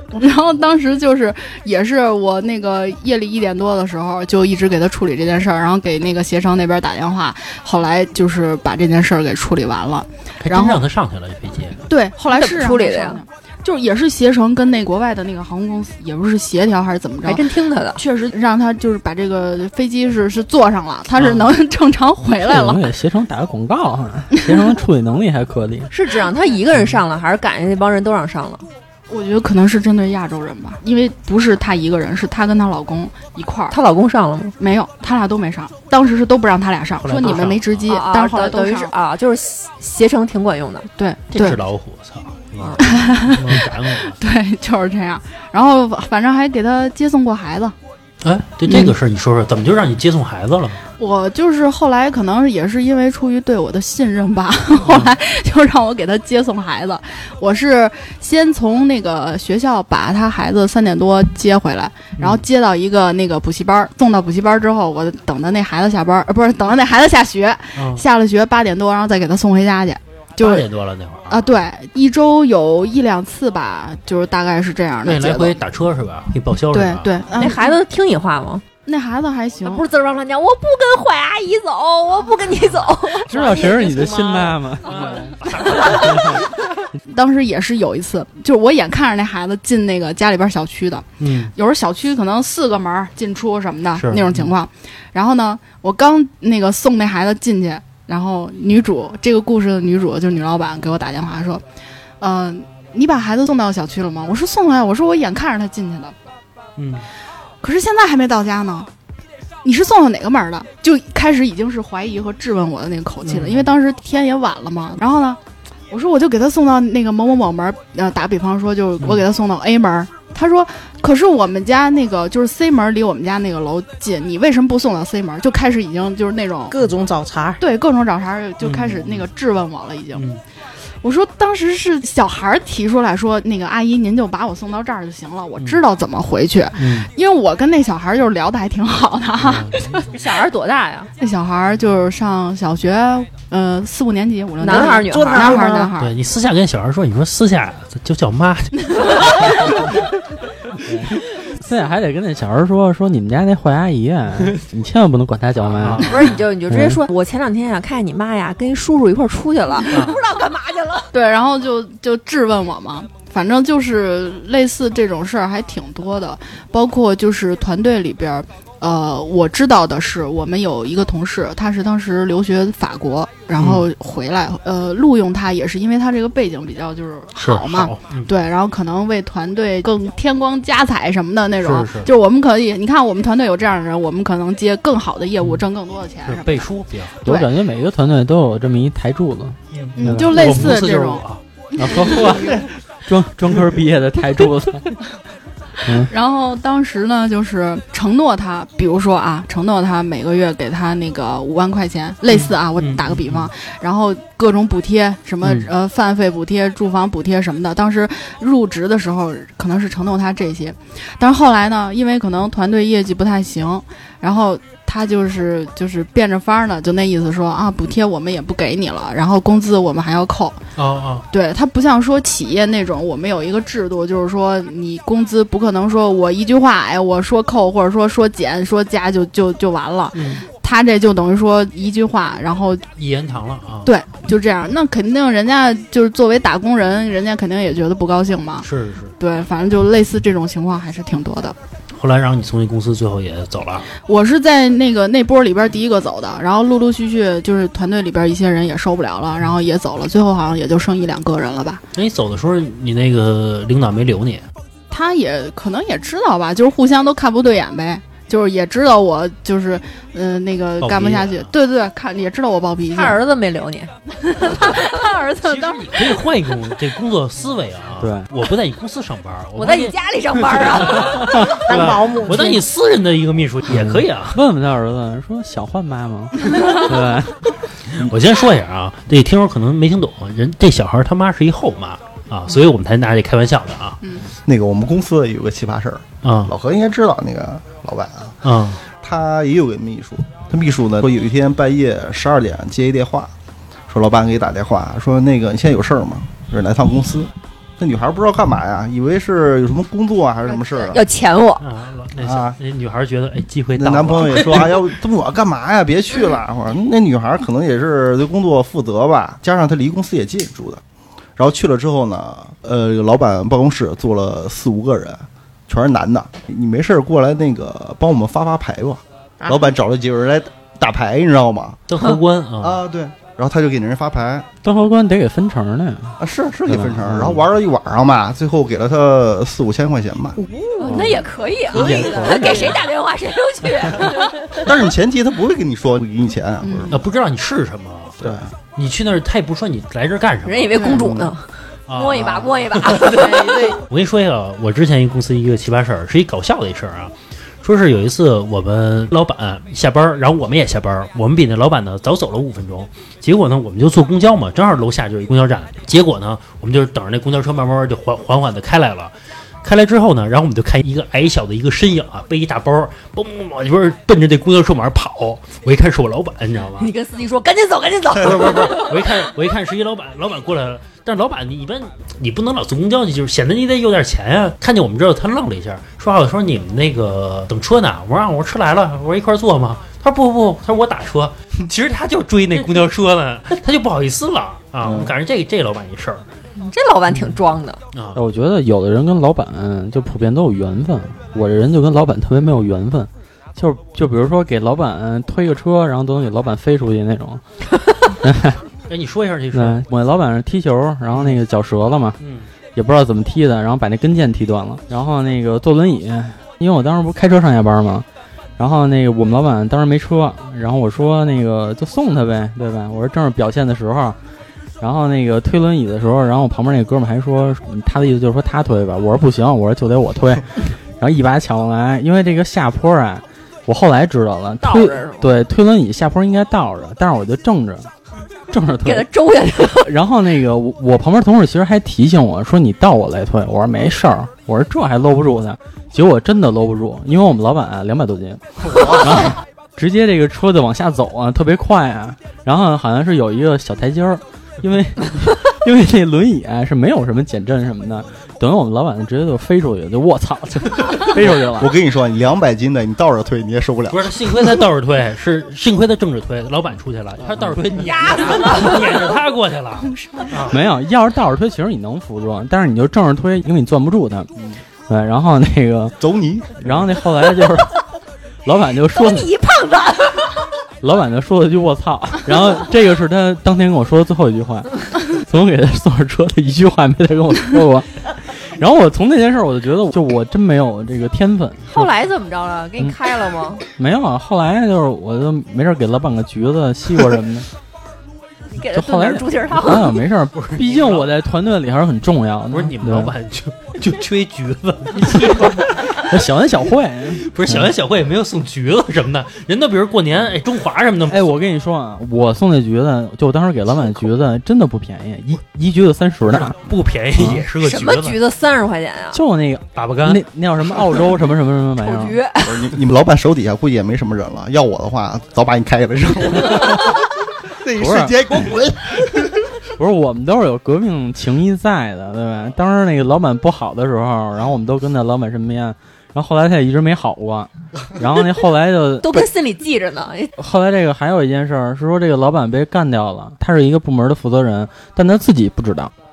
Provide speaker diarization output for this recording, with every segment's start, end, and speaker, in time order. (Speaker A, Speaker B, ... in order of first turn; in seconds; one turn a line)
Speaker A: 0.1-10.8
Speaker B: 10.4-11.8
Speaker A: 11.9-17.4
Speaker C: 12.3-13.2
Speaker C: 17.2-18.0
Speaker A: 17.9-22.9
Speaker B: 21.1-21.5
Speaker D: 22.4-25.9
Speaker C: 25.9-28.6
Speaker A: 29.1-33.8
Speaker C: 33.7-34.5
Speaker A: 34.6-38.9
Speaker B: 37.0-37.9
Speaker C: 37.9-40.9
Speaker A: 41.0-41.6
Speaker B: 41.3-44.2
Speaker C: 42.6-42.9
Speaker A: 42.8-47.7
Speaker B: 48.2-50.8
Speaker A: 51.0-70.7
Speaker B: 54.8-55.1
Speaker B: 62.2-62.4
Speaker B: 67.8-68.0
Speaker B: 70.4-71.5
Speaker A: 71.3-75.6
Speaker B: 75.0-77.1
Speaker A: 76.7-77.8
Speaker C: 77.3-78.6
Speaker A: 78.8-79.8
Speaker C: 79.6-84.5
Speaker D: 83.3-85.3
Speaker B: 84.8-86.4
Speaker C: 85.6-86.2
Speaker D: 85.9-86.4
Speaker A: 87.1-101.6
Speaker B: 91.2-91.5
Speaker B: 94.0-94.5
Speaker A: 102.2-106.1
Speaker B: 106.8-107.0
Speaker A: 107.6-108.9
Speaker A: 109.6-115.4
Speaker B: 113.2-113.7
Speaker A: 115.9-126.8
Speaker B: 119.0-119.2
Speaker E: 126.7-127.6
Speaker A: 127.6-130.2
Speaker B: 128.6-129.3
Speaker B: 130.1-130.4
Speaker A: 131.0-140.1
Speaker B: 136.8-137.1
Speaker B: 139.4-140.1
Speaker C: 140.1-141.1
Speaker A: 141.2-146.1
Speaker C: 144.6-145.8
Speaker E: 144.7-145.9
Speaker B: 146.0-149.7
Speaker D: 150.8-156.2
Speaker B: 155.6-156.4
Speaker C: 156.0-161.1
Speaker D: 156.7-157.0
Speaker B: 159.9-160.2
Speaker A: 161.1-186.7
Speaker B: 173.6-173.9
Speaker B: 177.4-178.3
Speaker B: 181.6-182.1
Speaker B: 186.2-187.2
Speaker A: 187.2-187.5
Speaker D: 187.2-190.7
Speaker B: 189.7-191.4
Speaker A: 190.0-191.2
Speaker D: 191.8-195.0
Speaker A: 191.8-192.6
Speaker D: 195.8-196.1
Speaker A: 196.1-220.6
Speaker B: 202.3-203.5
Speaker B: 205.4-205.7
Speaker B: 220.8-221.2
Speaker A: 221.3-232.8
Speaker B: 230.1-230.4
Speaker B: 233.0-233.9
Speaker A: 233.8-238.7
Speaker B: 238.6-239.1
Speaker A: 239.2-241.6
Speaker B: 241.9-243.9
Speaker A: 244.1-251.8
Speaker B: 251.9-254.5
Speaker A: 254.9-263.2
Speaker B: 260.8-261.5
Speaker C: 262.9-266.0
Speaker B: 265.4-269.9
Speaker D: 268.0-268.3
Speaker C: 269.6-271.5
Speaker B: 270.5-274.4
Speaker E: 271.5-272.6
Speaker D: 273.7-277.6
Speaker B: 277.9-284.0
Speaker F: 284.5-288.4
Speaker B: 286.2-286.5
Speaker B: 288.4-288.8
Speaker F: 288.9-293.3
Speaker F: 293.9-301.0
Speaker C: 300.7-301.6
Speaker B: 301.6-304.9
Speaker F: 302.2-302.6
Speaker F: 303.8-310.8
Speaker F: 311.4-321.8
Speaker E: 319.4-319.7
Speaker B: 321.9-322.8
Speaker F: 322.6-324.4
Speaker D: 324.6-327.4
Speaker F: 326.2-330.4
Speaker C: 330.5-334.6
Speaker D: 330.8-332.8
Speaker F: 334.5-337.0
Speaker A: 336.6-337.0
Speaker B: 336.9-340.9
Speaker F: 338.2-338.5
Speaker C: 340.4-343.8
Speaker F: 340.9-341.3
Speaker B: 341.9-366.9
Speaker C: 366.8-369.0
Speaker B: 368.2-386.2
Speaker F: 384.8-385.1
Speaker C: 386.6-387.8
Speaker B: 387.9-388.2
Speaker D: 388.1-397.4
Speaker D: 398.2-398.6
Speaker B: 398.9-399.8
Speaker D: 399.5-402.2
Speaker B: 402.2-402.5
Speaker D: 402.7-408.1
Speaker D: 408.6-414.2
Speaker D: 414.8-427.9
Speaker C: 424.6-425.3
Speaker D: 428.5-429.1
Speaker C: 428.8-429.9
Speaker D: 429.7-451.8
Speaker F: 438.7-439.0
Speaker F: 451.1-454.3
Speaker B: 453.9-460.6
Speaker C: 457.8-459.0
Speaker A: 459.9-460.3
Speaker D: 460.5-464.3
Speaker D: 464.9-466.0
Speaker F: 466.0-466.8
Speaker D: 466.6-467.8
Speaker D: 468.4-469.3
Speaker C: 468.9-470.4
Speaker D: 470.8-481.9
Speaker C: 481.7-483.6
Speaker D: 483.8-487.5
Speaker C: 488.5-490.0
Speaker D: 488.7-493.1
Speaker B: 490.3-491.1
Speaker B: 492.5-496.0
Speaker D: 495.0-497.7
Speaker B: 497.2-501.3
Speaker D: 501.1-506.6
Speaker B: 506.6-508.2
Speaker D: 507.2-507.4
Speaker C: 507.6-509.2
Speaker D: 509.1-512.2
Speaker B: 509.8-510.2
Speaker C: 511.8-512.7
Speaker F: 512.4-519.5
Speaker D: 517.8-518.5
Speaker D: 519.8-529.3
Speaker C: 529.0-530.3
Speaker D: 530.4-535.9